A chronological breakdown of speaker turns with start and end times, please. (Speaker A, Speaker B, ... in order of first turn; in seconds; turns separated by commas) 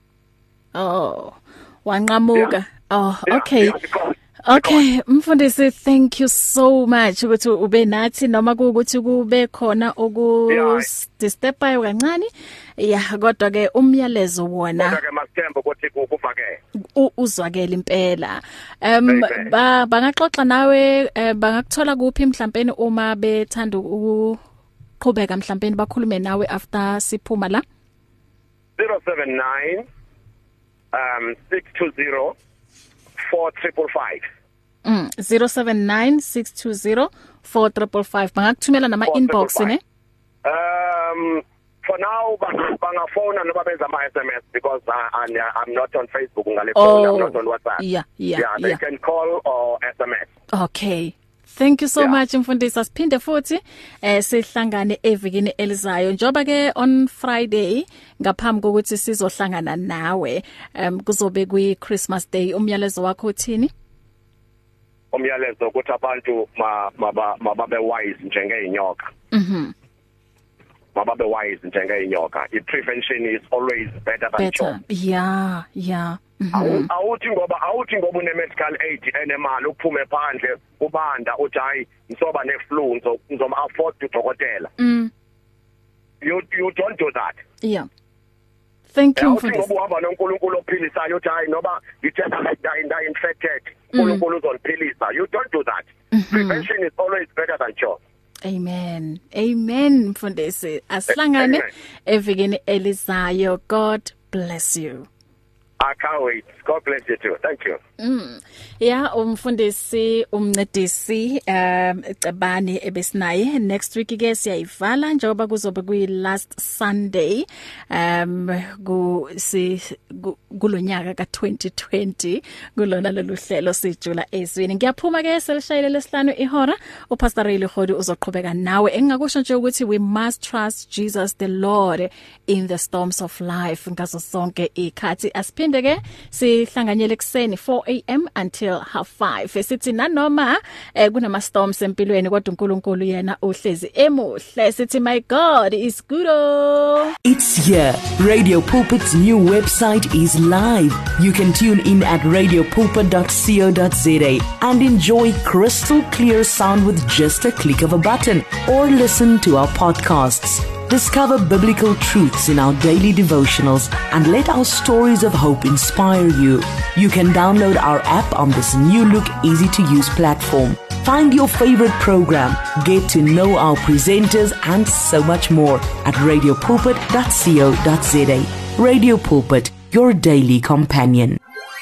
Speaker A: 0.7-3.8, Speaker B: 3.3-4.8, Speaker A: 4.4-15.0, Speaker B: 10.5-10.9, Speaker B: 14.8-16.6, Speaker A: 16.9-24.4, Speaker B: 19.1-19.5, Speaker A: 25.0-27.6, Speaker B: 28.8-29.9, Speaker B: 30.9-32.4, Speaker B: 33.2-34.2, Speaker A: 34.8-39.8, Speaker B: 39.1-39.8, Speaker B: 40.4-47.8, Speaker A: 46.8-48.8, Speaker B: 48.4-50.3, Speaker A: 50.5-63.7, Speaker B: 65.1-69.1, Speaker A: 69.3-69.7, Speaker B: 70.9-74.8, Speaker A: 74.4-76.9, Speaker B: 76.5-84.7, Speaker A: 84.8-85.1, Speaker B: 86.2-87.4, Speaker A: 87.6-87.9, Speaker A: 88.9-89.7, Speaker B: 89.2-98.0, Speaker A: 93.9-94.2, Speaker A: 96.1-96.7, Speaker A: 98.4-105.1, Speaker B: 101.4-101.7, Speaker B: 105.8-107.8, Speaker A: 108.0-147.1, Speaker C: 147.2-181.4